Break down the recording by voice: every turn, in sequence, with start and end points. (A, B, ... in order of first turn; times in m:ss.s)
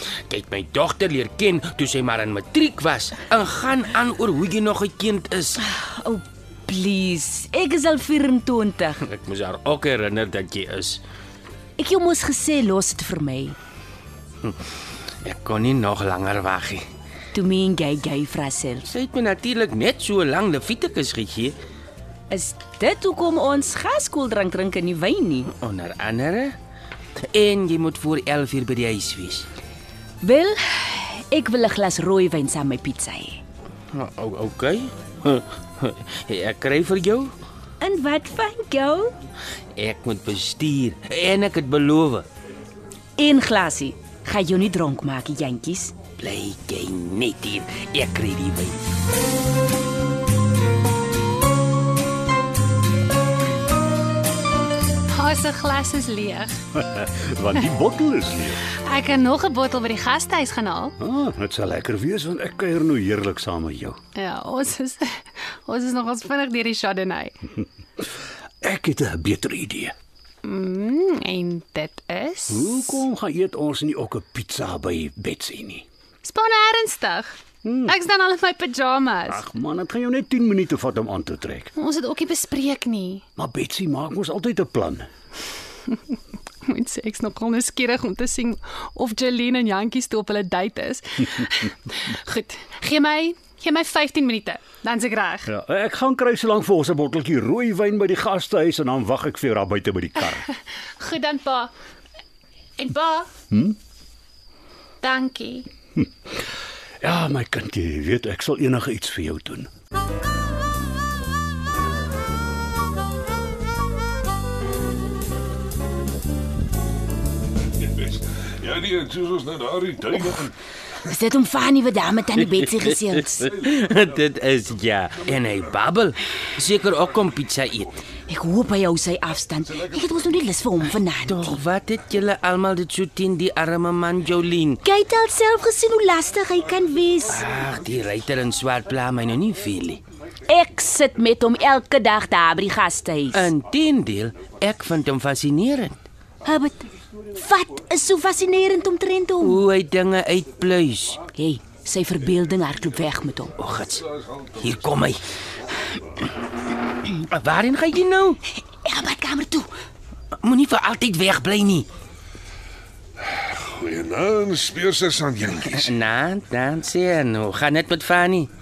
0:00.3-0:05.6 A
0:05.6-0:09.0 B
0:09.0-0:11.0 A
0:11.8-0:13.6 B
0:15.2-0:16.8 A
0:17.3-0:18.9 B
0:18.8-0:21.6 A
0:22.3-0:25.5 B
0:25.4-0:26.6 A
0:27.2-0:29.5 A
0:30.2-0:33.4 B
0:33.9-0:37.3 A
0:37.8-0:39.1 B
0:39.8-0:42.2 A
0:43.2-0:46.0 B
0:46.2-0:48.8 A
0:55.1-0:56.6 C
0:56.8-0:58.6 D
0:58.7-1:00.9 C
1:01.0-1:04.0 D
1:04.2-1:07.4 C
1:08.6-1:09.9 D
1:10.4-1:13.0 C
1:12.5-1:15.8 D
1:16.2-1:19.4 C
1:17.6-1:17.9 D
1:19.3-1:21.7 D
1:21.8-1:23.2 C
1:23.4-1:25.1 D
1:26.6-1:35.5 C
1:35.5-1:40.5 D
1:41.0-1:41.7 C
1:42.8-1:43.3 C
1:43.5-1:43.8 D
1:45.0-1:45.7 C
1:47.0-1:49.7 D
1:57.7-2:00.5 E
2:01.0-2:03.5 B
2:02.4-2:07.9 A
2:08.3-2:11.6 B
2:11.2-2:14.8 A
2:14.8-2:17.4 B
2:17.3-2:20.0 A
2:20.5-2:23.5 B
2:23.3-2:26.0 A
2:26.4-2:29.6 B
2:29.4-2:31.2 A
2:31.3-2:33.5 B
2:33.6-2:35.2 A
2:34.2-2:34.5 E
2:37.0-2:38.4 A
2:38.7-2:39.7 B
2:40.4-2:41.9 A
2:43.3-2:45.9 E
2:45.6-2:48.5 A